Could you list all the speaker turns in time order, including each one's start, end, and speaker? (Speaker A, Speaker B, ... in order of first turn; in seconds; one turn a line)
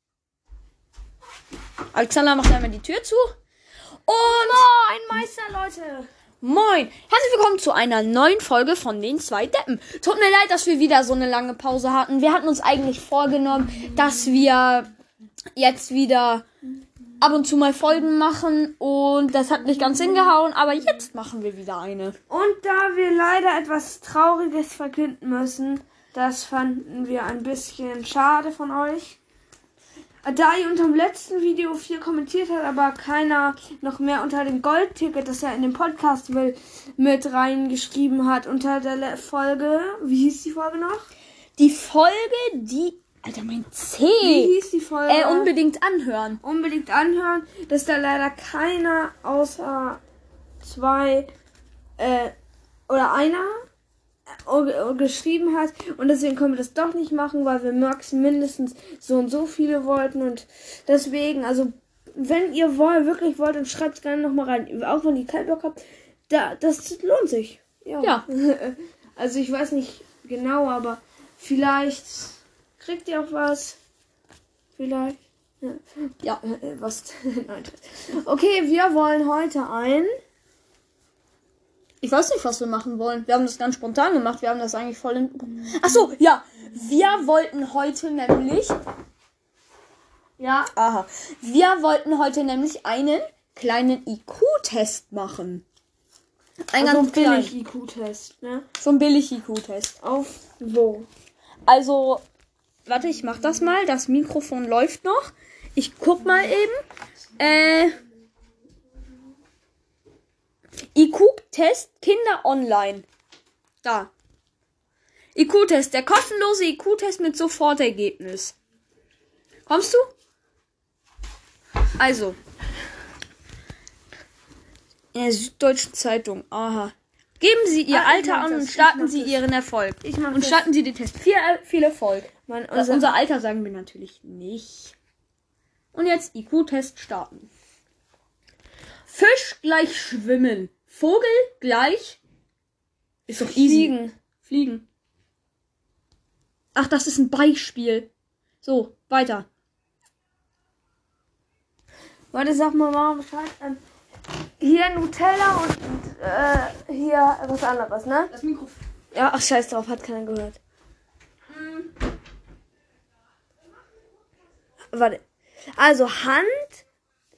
Speaker A: 1.9-3.4
Speaker A: 4.1-4.7
Speaker B: 4.2-6.1
Speaker A: 6.4-14.9
Speaker A: 15.6-16.5
Speaker A: 17.2-22.2
Speaker B: 22.3-29.2
Speaker B: 30.2-41.1
Speaker A: 41.6-44.5
Speaker B: 44.2-45.5
Speaker A: 45.1-46.4
Speaker B: 46.4-50.0
Speaker B: 50.6-51.3
Speaker B: 52.0-52.3
Speaker B: 52.9-53.6
Speaker B: 54.5-73.8
Speaker B: 74.8-80.1
Speaker A: 82.0-88.8
Speaker B: 90.4-90.7
Speaker A: 90.8-95.7
Speaker A: 96.7-97.5
Speaker B: 96.8-98.7
Speaker A: 98.8-100.0
Speaker B: 100.0-101.1
Speaker A: 101.7-102.2
Speaker A: 102.9-106.8
Speaker A: 107.4-108.0
Speaker A: 110.9-113.1
Speaker A: 113.8-114.1
Speaker A: 115.3-118.5
Speaker A: 119.7-120.1
Speaker A: 122.0-122.4
Speaker A: 125.1-134.9
Speaker B: 127.9-129.4
Speaker B: 130.0-130.7
Speaker B: 132.5-133.1
Speaker A: 135.9-137.5
Speaker A: 139.1-142.2
Speaker A: 143.3-144.8
Speaker B: 143.3-144.2
Speaker A: 146.8-148.1
Speaker A: 148.6-149.5
Speaker B: 152.3-153.8
Speaker B: 154.6-158.3
Speaker A: 158.3-158.8
Speaker B: 159.1-160.6
Speaker A: 161.5-161.9
Speaker B: 164.9-165.2
Speaker B: 165.8-166.8